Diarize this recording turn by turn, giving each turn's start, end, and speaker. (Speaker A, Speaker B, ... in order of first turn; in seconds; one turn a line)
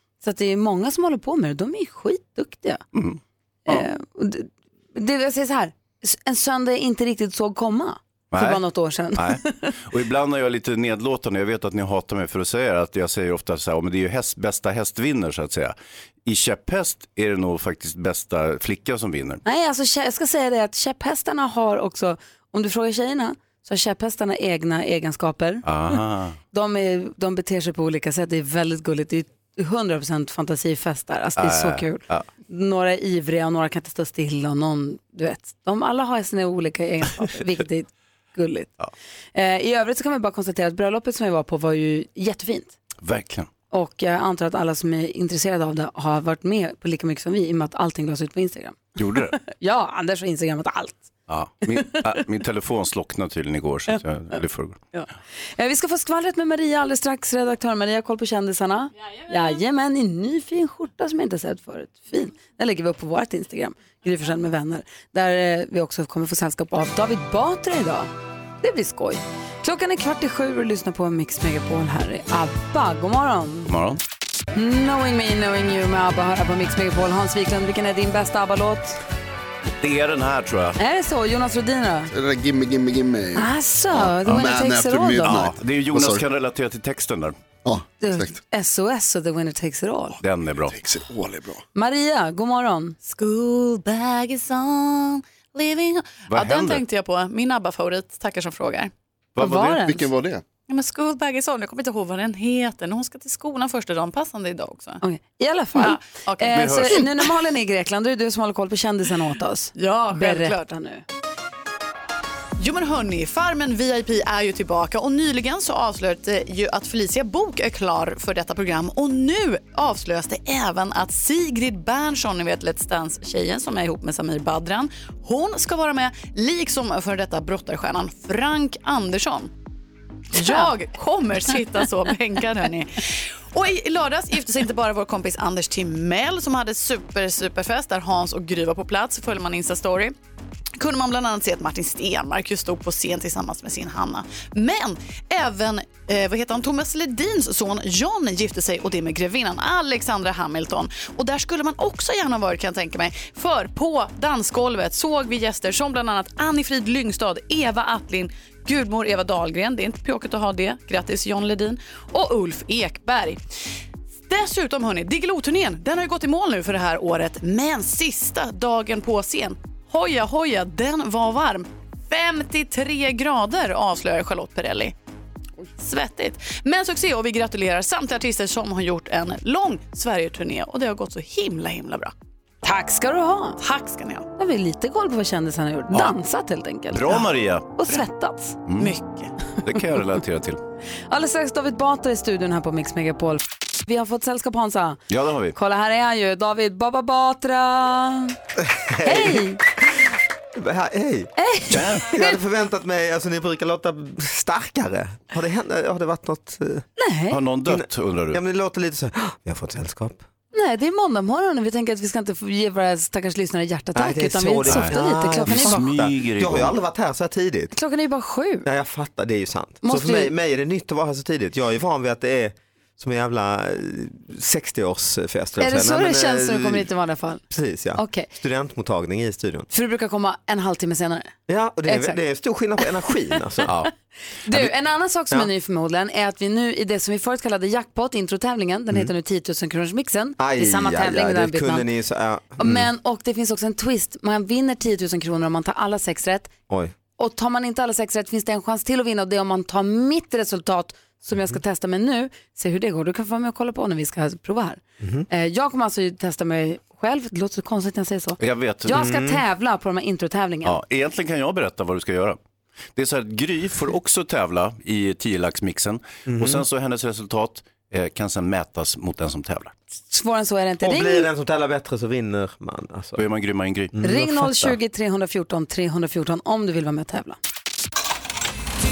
Speaker A: 0.2-2.8
Speaker B: 2.9-3.9
Speaker A: 3.6-9.7
Speaker B: 8.3-8.6
Speaker B: 9.1-19.4
Speaker A: 19.4-26.0
Speaker B: 25.6-26.4
Speaker A: 26.5-38.8
Speaker B: 31.4-32.2
Speaker A: 39.3-42.8
Speaker B: 43.0-43.5
Speaker A: 43.7-51.1
Speaker B: 49.0-49.4
Speaker B: 51.3-54.8
Speaker A: 54.9-68.1
Speaker A: 68.6-73.7
Speaker B: 73.7-74.0
Speaker A: 74.5-79.0
Speaker B: 79.8-80.8
Speaker A: 80.8-82.1
Speaker C: 82.1-86.2
Speaker A: 83.3-85.4
Speaker B: 85.2-87.4
Speaker C: 87.6-88.4
Speaker A: 88.0-90.2
Speaker B: 90.2-90.8
Speaker C: 90.7-91.6
Speaker A: 91.7-93.0
Speaker D: 93.0-98.9
Speaker B: 96.3-96.8
Speaker B: 99.3-99.8
Speaker A: 99.4-100.1
Speaker C: 99.8-100.4
Speaker D: 100.7-105.0
Speaker A: 105.0-111.0
Speaker D: 105.7-107.1
Speaker B: 106.5-107.0
Speaker D: 109.8-110.7
Speaker D: 112.6-129.5
Speaker D: 130.3-140.1
Speaker A: 130.4-130.7
Speaker D: 140.8-163.4
Speaker D: 164.3-174.9
Speaker D: 175.8-182.1
Speaker A: 182.6-183.6
Speaker D: 183.6-184.3
Speaker A: 184.4-188.6
Speaker B: 186.9-187.8
Speaker B: 188.7-188.9
Speaker D: 188.7-189.3
Speaker B: 189.6-190.6
Speaker A: 191.1-195.0
Speaker B: 195.1-195.6
Speaker A: 195.5-198.3
Speaker E: 198.6-199.5
Speaker A: 199.0-199.6
Speaker E: 200.6-201.3
Speaker A: 201.3-202.4
Speaker B: 201.7-202.2
Speaker E: 202.0-206.8
Speaker A: 207.0-207.4
Speaker B: 207.3-208.4
Speaker E: 207.6-210.2
Speaker A: 210.5-215.9
Speaker E: 213.9-217.7
Speaker B: 214.7-216.8
Speaker A: 217.7-218.7
Speaker E: 218.6-226.9
Speaker A: 219.8-220.3
Speaker A: 225.6-227.4
Speaker E: 227.5-229.7
Speaker A: 227.9-228.3
Speaker A: 229.7-231.3
Speaker E: 231.5-233.8
Speaker A: 231.8-232.2
Speaker A: 234.4-241.9
Speaker E: 240.4-242.9
Speaker A: 242.6-246.5
Speaker E: 246.7-246.9
Speaker A: 247.2-260.8
Speaker E: 255.0-255.2
Speaker B: 258.4-259.1
Speaker E: 258.9-259.4
Speaker B: 260.6-262.4
Speaker B: 262.9-269.7
Speaker E: 266.3-266.6
Speaker A: 270.1-271.3
Speaker E: 270.8-273.2
Speaker B: 273.2-274.0
Speaker E: 273.9-274.7
Speaker A: 274.0-277.4